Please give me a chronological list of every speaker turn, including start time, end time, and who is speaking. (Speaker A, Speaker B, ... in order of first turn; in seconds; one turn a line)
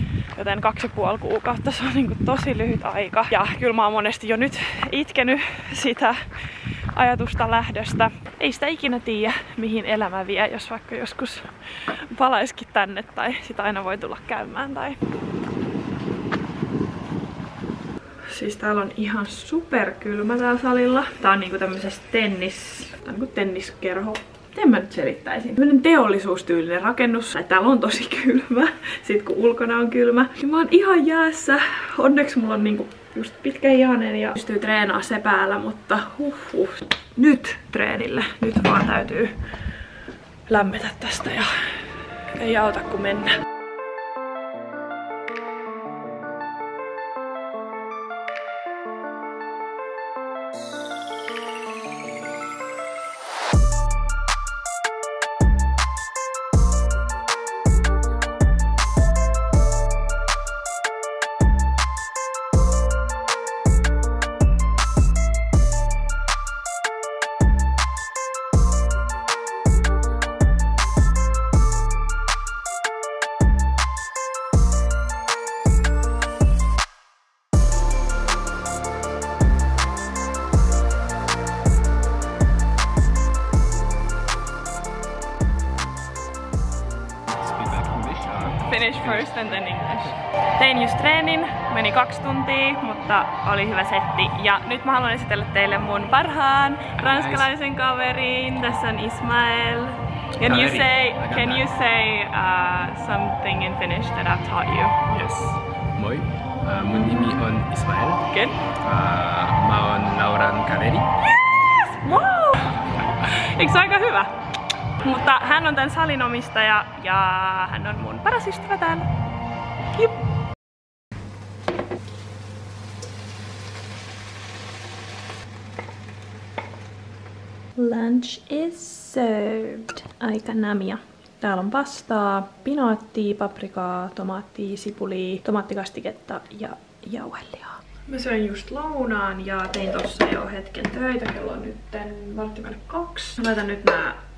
Speaker A: 0.3-6.2
Speaker A: 7.0-15.0
Speaker A: 18.3-39.4
Speaker A: 40.5-41.5
Speaker A: 42.3-43.3
Speaker B: 87.4-89.4
Speaker A: 88.6-105.1
Speaker B: 97.0-97.5
Speaker B: 100.4-101.6
Speaker B: 105.1-108.2
Speaker A: 107.0-107.3
Speaker A: 108.3-108.6
Speaker B: 108.8-111.1
Speaker A: 111.5-114.3
Speaker A: 115.0-119.1
Speaker A: 127.8-144.2